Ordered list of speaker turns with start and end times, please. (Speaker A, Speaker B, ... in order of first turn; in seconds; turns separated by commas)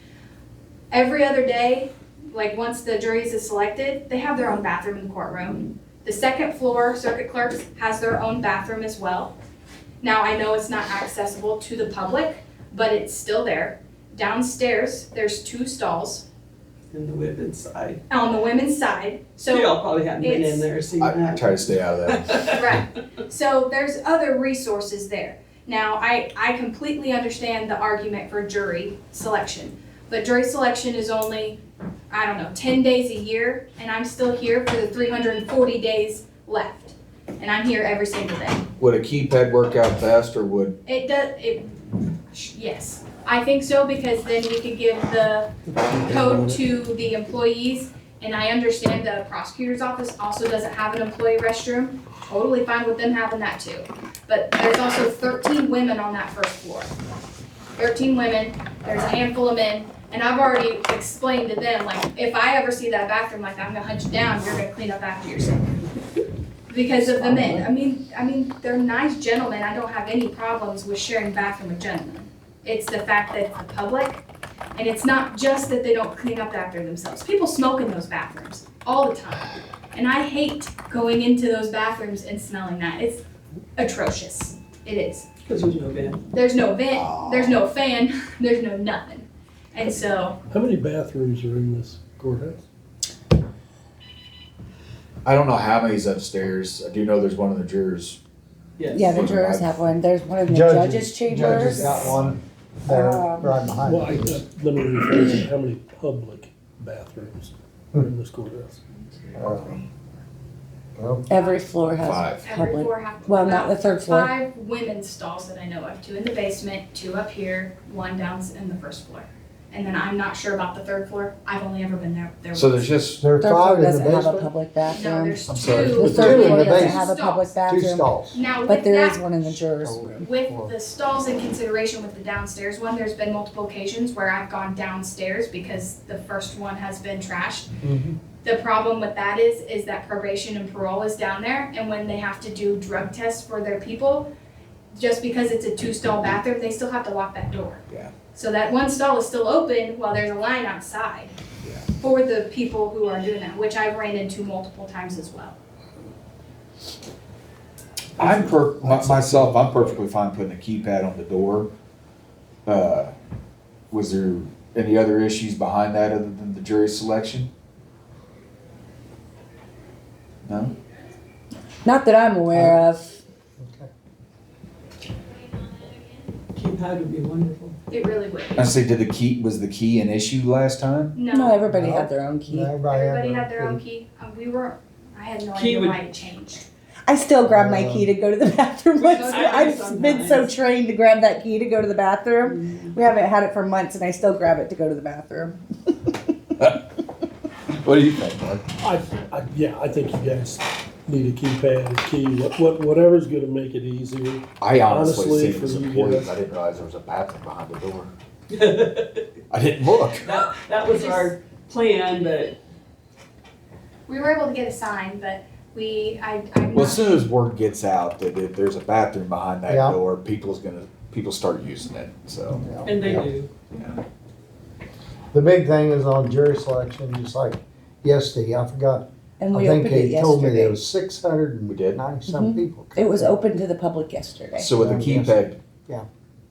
Speaker A: 0.9-9.3, Speaker A: 10.0-16.2, Speaker B: 16.9-18.0, Speaker A: 18.1-20.7, Speaker B: 19.5-22.6, Speaker C: 21.0-22.5, Speaker A: 22.5-38.7, Speaker C: 38.8-40.8, Speaker A: 40.9-41.7, Speaker A: 42.3-56.9, Speaker A: 57.8-65.7, Speaker A: 66.7-74.2, Speaker A: 74.8-83.2, Speaker A: 83.8-85.3, Speaker B: 85.5-86.2, Speaker A: 86.3-90.4, Speaker C: 86.9-87.6, Speaker D: 90.5-92.6, Speaker C: 95.2-98.2, Speaker B: 98.8-99.2, Speaker E: 98.9-102.1, Speaker C: 99.1-99.9, Speaker F: 100.5-104.4, Speaker C: 101.5-102.4, Speaker E: 102.9-103.5, Speaker D: 103.9-108.8, Speaker A: 109.0-109.9, Speaker F: 109.3-109.8, Speaker F: 111.0-111.3, Speaker E: 111.3-114.3, Speaker C: 112.0-112.5, Speaker A: 112.4-122.9, Speaker C: 122.5-123.2, Speaker F: 123.2-124.5, Speaker E: 123.4-128.1, Speaker A: 124.9-127.5, Speaker C: 125.5-126.2, Speaker F: 126.0-127.1, Speaker F: 127.7-128.4, Speaker A: 128.3-129.2, Speaker E: 128.7-130.3, Speaker F: 129.5-130.7, Speaker A: 130.2-137.7, Speaker F: 137.8-138.2, Speaker A: 138.4-144.3, Speaker A: 144.9-151.3, Speaker A: 152.0-155.6, Speaker C: 158.2-161.7, Speaker F: 158.8-159.9, Speaker C: 162.7-163.1, Speaker C: 163.9-167.5, Speaker C: 170.5-170.8, Speaker E: 171.8-173.2, Speaker F: 172.5-172.8, Speaker F: 173.6-173.9, Speaker B: 176.6-177.8, Speaker A: 177.9-178.7, Speaker C: 178.6-181.2, Speaker A: 181.2-181.6, Speaker E: 181.3-182.7, Speaker F: 181.7-183.8, Speaker A: 182.9-186.6, Speaker B: 185.5-186.0, Speaker E: 187.1-196.1, Speaker F: 187.4-188.1, Speaker A: 189.0-189.9, Speaker B: 189.2-190.5, Speaker B: 192.4-192.9, Speaker C: 197.7-198.7, Speaker D: 198.9-200.6, Speaker D: 201.1-206.3, Speaker C: 204.6-208.1, Speaker B: 208.5-209.2, Speaker C: 209.5-210.3, Speaker B: 210.2-212.6, Speaker A: 210.9-211.3, Speaker A: 214.1-217.3, Speaker C: 216.7-222.7, Speaker F: 219.7-220.0, Speaker F: 222.6-223.3, Speaker B: 222.8-223.5, Speaker C: 223.7-224.0, Speaker F: 225.3-233.3, Speaker E: 229.4-230.8, Speaker C: 231.7-232.0, Speaker E: 232.3-234.7, Speaker C: 234.6-235.6, Speaker F: 234.7-236.1